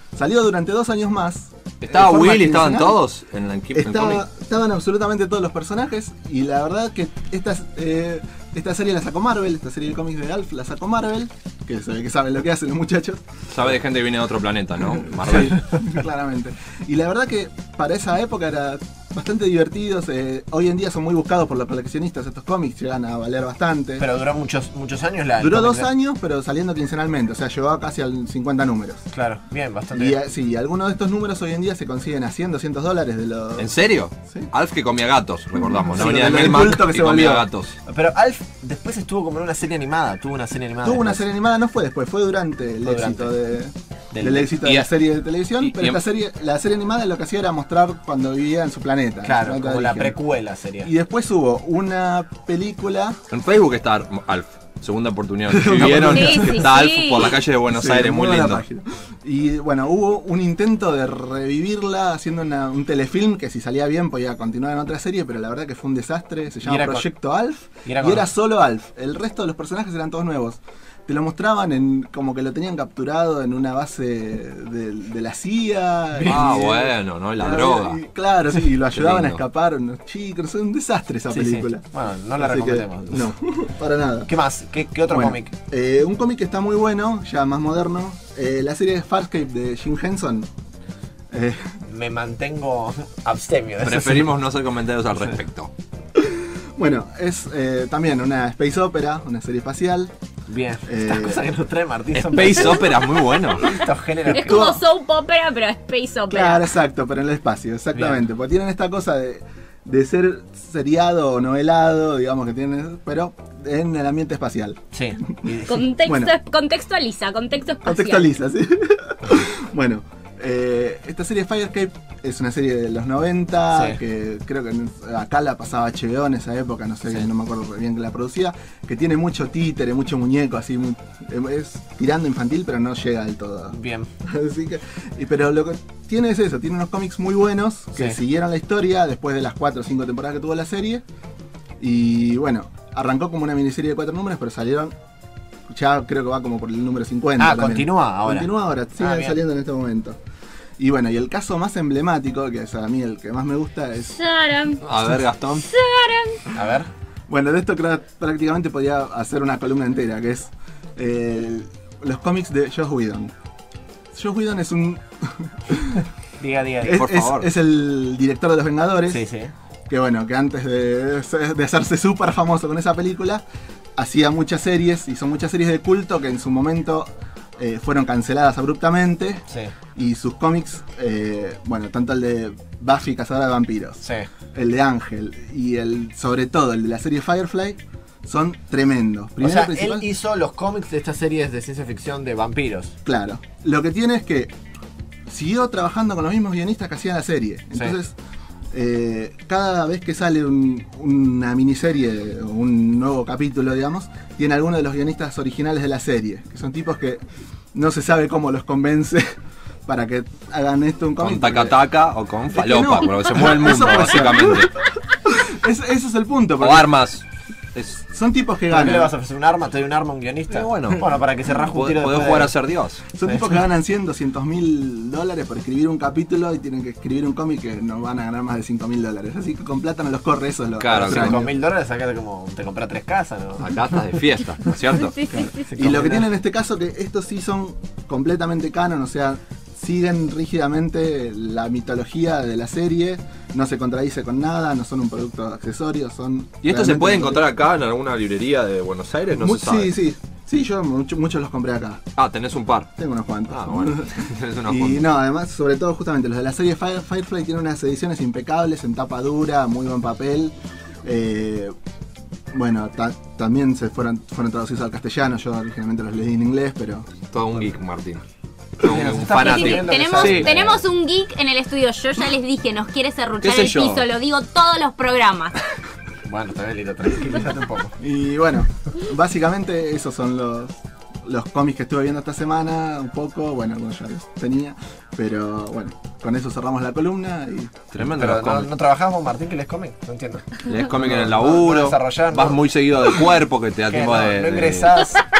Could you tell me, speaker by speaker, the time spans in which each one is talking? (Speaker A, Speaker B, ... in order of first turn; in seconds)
Speaker A: 0.1-3.0, 3.7-13.2, 15.2-24.1, 25.4-29.1, 29.9-33.7, 35.6-37.4, 40.8-50.2, 50.8-53.2, 55.5-56.9, 57.7-81.8, 82.4-84.3, 85.1-90.5, 91.3-91.8, 96.2-100.1, 100.9-101.4, 104.4-104.8, 106.3-114.8, 116.0-116.3, 117.8-141.0, 141.8-144.9, 145.7-150.2, 150.8-154.2, 157.3-163.3, 164.1-166.0, 166.8-169.2, 169.9-173.4, 174.0-179.4, 179.9-184.0, 184.5-190.0, 193.0-194.5, 195.3-198.1, 198.7-207.2, 207.7-209.3, 209.8-211.7, 212.5-214.7, 215.2-216.9, 218.1-219.1, 223.2-231.5, 235.3-247.4, 249.3-252.0, 253.0-261.7, 262.5-267.1, 268.9-269.4, 278.0-287.7
Speaker B: 1.8-4.2, 13.5-15.6, 33.6-37.7, 45.6-46.0, 53.3-58.6, 76.2-78.0, 78.9-79.4, 93.8-95.7, 102.2-103.6, 154.8-155.7, 166.9-167.5, 211.2-214.7, 216.6-217.2, 217.7-218.0, 220.5-223.0, 230.8-231.4, 233.6-235.1, 246.6-249.9, 252.2-252.9, 253.5-255.1, 267.3-268.2, 268.8-270.6, 273.4-274.0, 287.9-288.7, 290.7-295.0
Speaker C: 24.0-25.9, 29.1-30.2, 37.9-41.2, 42.8-43.3, 44.1-44.6, 49.2-50.9, 66.6-67.1, 67.8-68.3, 76.1-76.9, 81.3-83.3, 84.2-85.5, 91.8-94.3, 100.5-102.9, 103.5-104.7, 107.9-108.2, 114.9-115.9, 123.7-124.0, 127.0-127.3, 133.7-134.1, 137.9-138.2, 147.4-149.4, 156.5-156.9, 166.4-167.1, 169.1-169.5, 179.5-179.7, 184.0-184.3, 189.4-193.0, 218.7-222.5, 223.2-223.6, 230.9-234.2, 235.6-236.3, 268.8-270.8, 276.2-277.9, 288.1-292.6, 293.9-295.2
Speaker D: 56.0-57.3, 102.4-103.4, 104.3-106.6, 115.7-118.3, 154.1-154.8, 155.6-156.4, 234.9-235.7, 269.6-275.6